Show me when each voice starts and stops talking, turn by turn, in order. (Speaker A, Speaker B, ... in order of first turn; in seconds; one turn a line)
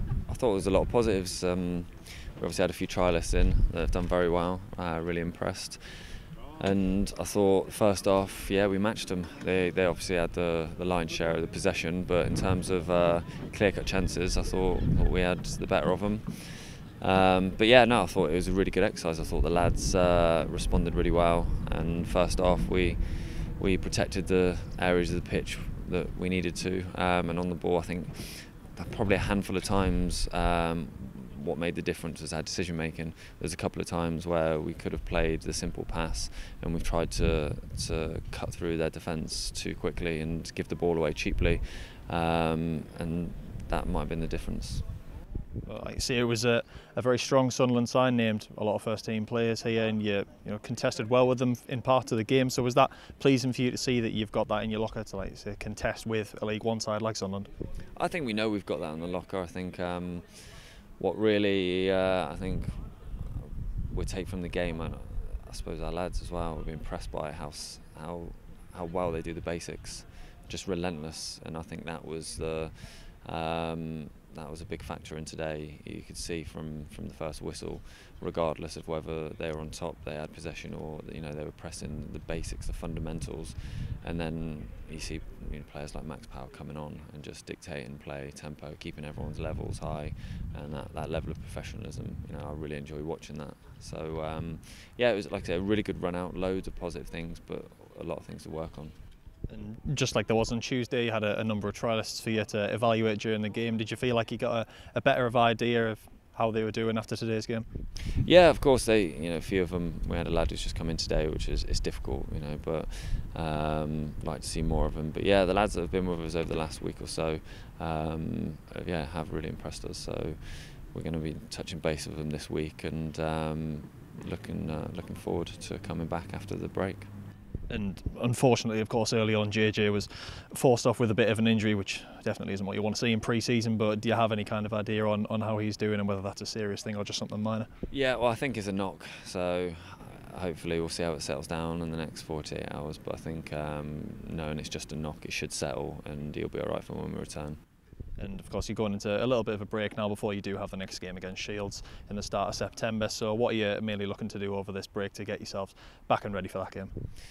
Speaker A: 0.3-44.9
Speaker B: 45.6-57.5
Speaker A: 57.9-99.0
Speaker B: 99.5-107.7
Speaker A: 108.2-127.1
Speaker B: 127.7-137.7
Speaker A: 137.9-147.6
Speaker B: 148.2-156.9